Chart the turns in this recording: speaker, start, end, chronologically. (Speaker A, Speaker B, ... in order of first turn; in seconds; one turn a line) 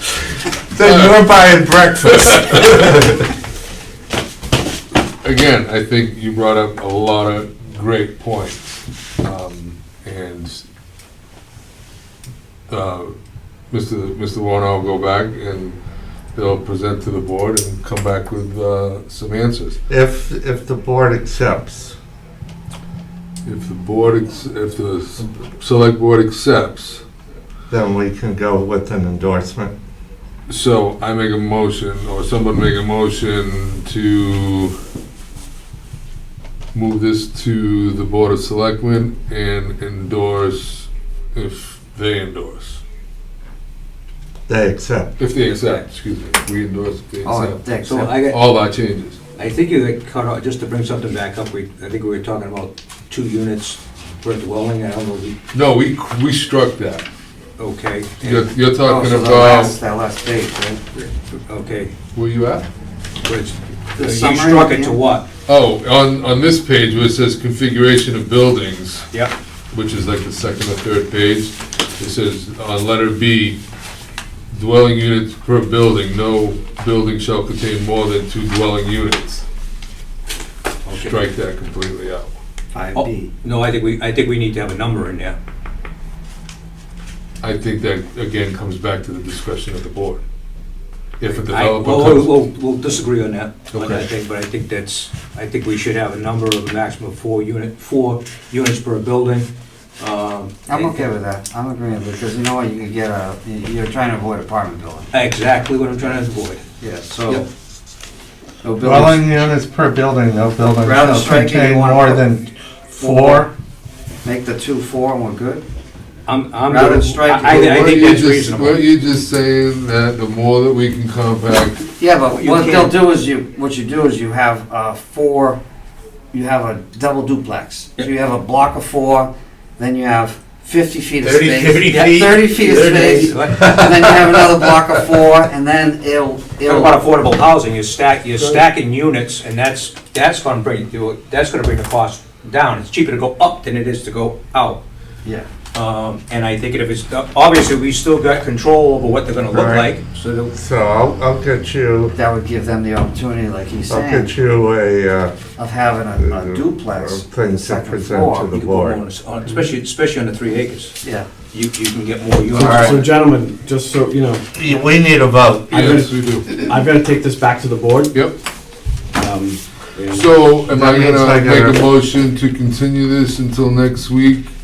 Speaker A: 0.7-3.2
Speaker B: 0.8-1.3
Speaker B: 2.3-3.0
Speaker B: 5.2-10.7
Speaker B: 12.7-13.1
Speaker B: 13.7-15.8
Speaker B: 16.3-19.8
Speaker A: 19.9-22.0
Speaker B: 23.4-27.0
Speaker A: 27.7-29.7
Speaker B: 30.5-34.8
Speaker B: 36.7-42.8
Speaker A: 44.5-45.1
Speaker B: 45.2-49.2
Speaker C: 45.4-45.8
Speaker D: 47.2-48.1
Speaker C: 47.8-48.4
Speaker C: 49.3-55.4
Speaker B: 55.5-57.0
Speaker C: 57.6-58.5
Speaker B: 58.2-59.8
Speaker D: 58.8-60.8
Speaker C: 61.0-62.0
Speaker B: 62.1-62.7
Speaker C: 63.2-65.3
Speaker D: 64.0-65.0
Speaker B: 65.5-69.1
Speaker B: 69.7-73.6
Speaker B: 74.5-79.4
Speaker C: 80.8-81.2
Speaker B: 81.0-82.4
Speaker D: 82.7-83.3
Speaker C: 83.0-85.4
Speaker B: 87.4-90.2
Speaker B: 91.2-92.3
Speaker C: 91.3-101.0
Speaker B: 93.7-94.0
Speaker D: 100.7-105.1
Speaker C: 105.1-106.6
Speaker D: 106.8-107.4
Speaker D: 108.6-109.4
Speaker A: 108.8-113.5
Speaker D: 110.8-112.2
Speaker D: 113.0-113.5
Speaker D: 114.2-115.6
Speaker C: 116.2-118.8
Speaker D: 116.7-117.8
Speaker B: 117.4-121.9
Speaker D: 122.0-125.6
Speaker C: 122.3-122.9
Speaker D: 126.3-137.0
Speaker C: 131.2-134.2
Speaker C: 136.6-144.8
Speaker C: 145.7-150.5
Speaker A: 149.5-149.9
Speaker A: 150.5-152.1
Speaker D: 152.1-154.3
Speaker A: 153.9-155.4
Speaker D: 155.6-158.5
Speaker A: 156.2-159.0
Speaker C: 158.5-161.0
Speaker D: 161.0-161.3
Speaker C: 161.5-163.1
Speaker E: 162.5-164.5
Speaker A: 162.6-163.0
Speaker A: 164.5-165.9
Speaker B: 165.7-166.7
Speaker E: 165.8-168.1
Speaker E: 169.1-170.3
Speaker B: 170.1-174.5
Speaker A: 170.7-171.8